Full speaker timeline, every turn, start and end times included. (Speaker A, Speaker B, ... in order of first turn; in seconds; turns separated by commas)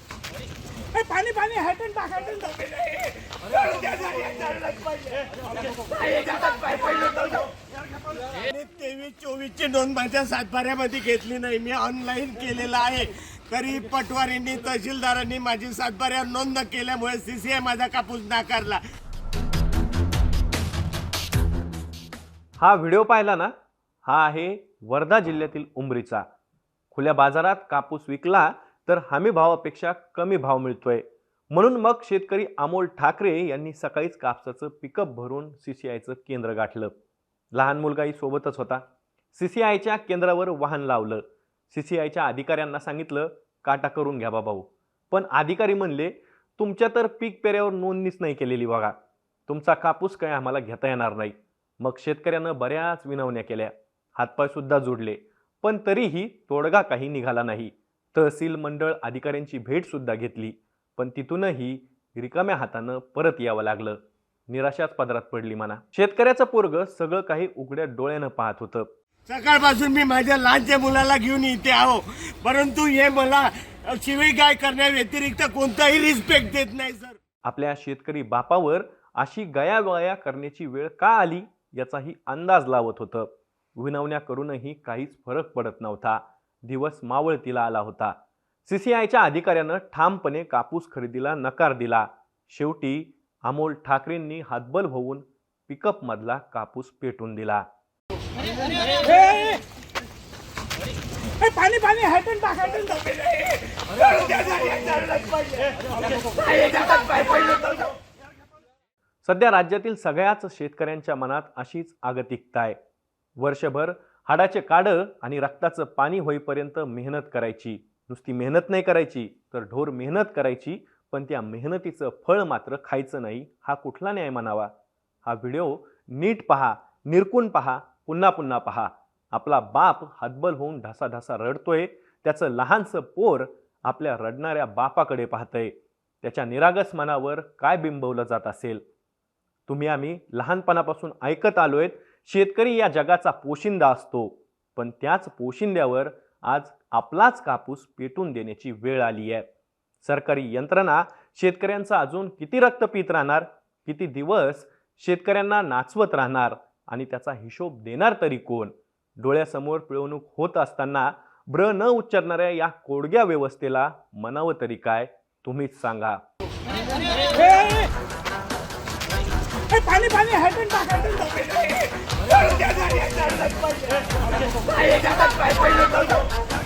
Speaker A: 0.9-3.0, Speaker B: 3.2-5.1, Speaker B: 5.9-7.4, Speaker B: 8.3-18.8, Speaker C: 22.6-23.5, Speaker C: 24.0-26.2, Speaker C: 26.9-37.0, Speaker C: 37.5-38.8, Speaker C: 39.3-48.9, Speaker C: 49.5-68.9, Speaker B: 69.3-77.2, Speaker C: 77.4-97.7, Speaker A: 98.9-99.6, Speaker A: 101.4-105.2, Speaker A: 106.4-107.5, Speaker C: 109.2-112.8, Speaker C: 113.4-124.7, Speaker C: 125.2-138.8, Speaker C: 139.7-149.5, Speaker C: 150.0-166.2, Speaker A: 167.3-167.8, Speaker A: 169.7-171.4, Speaker B: 171.4-174.0, Speaker B: 174.7-176.2